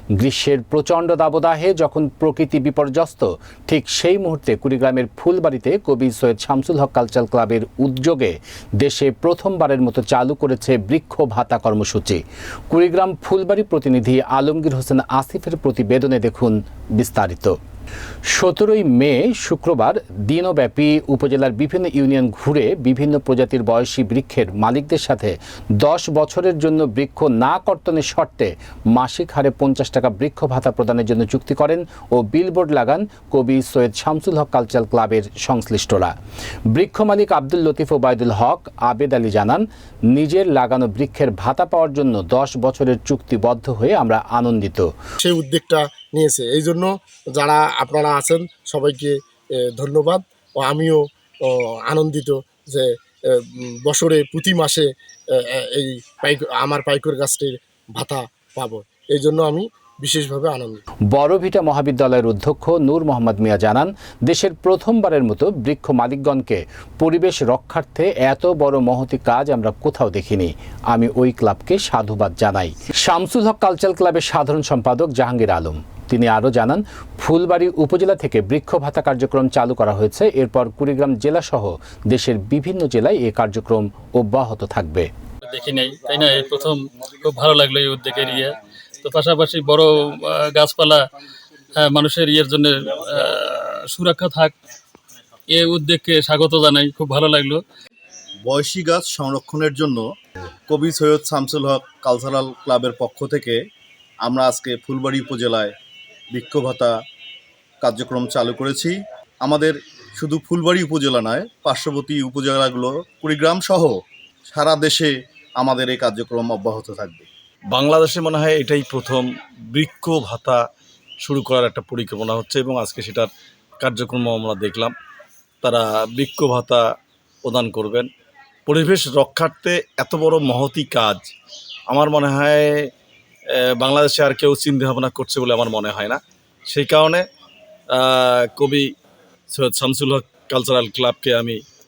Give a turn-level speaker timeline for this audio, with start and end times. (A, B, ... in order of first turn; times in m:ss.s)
0:00.2-0:17.6 A
0:18.3-0:36.1 A
0:36.7-0:44.9 A
0:45.2-1:00.8 B
1:01.1-1:25.1 A
1:25.5-1:31.1 C
1:31.8-1:34.6 C
1:35.5-1:37.6 C
1:38.4-1:40.1 D
1:40.7-1:43.6 D
1:44.2-1:45.7 D
1:46.3-1:46.9 D
1:47.8-1:54.0 D
1:54.5-1:57.3 D
1:57.7-2:00.6 E
2:01.2-2:04.9 E
2:05.6-2:06.9 E
2:07.4-2:08.1 E
2:08.7-2:11.3 E
2:11.9-2:12.9 E
2:13.5-2:17.3 E
2:17.9-2:18.9 E
2:19.5-2:21.6 E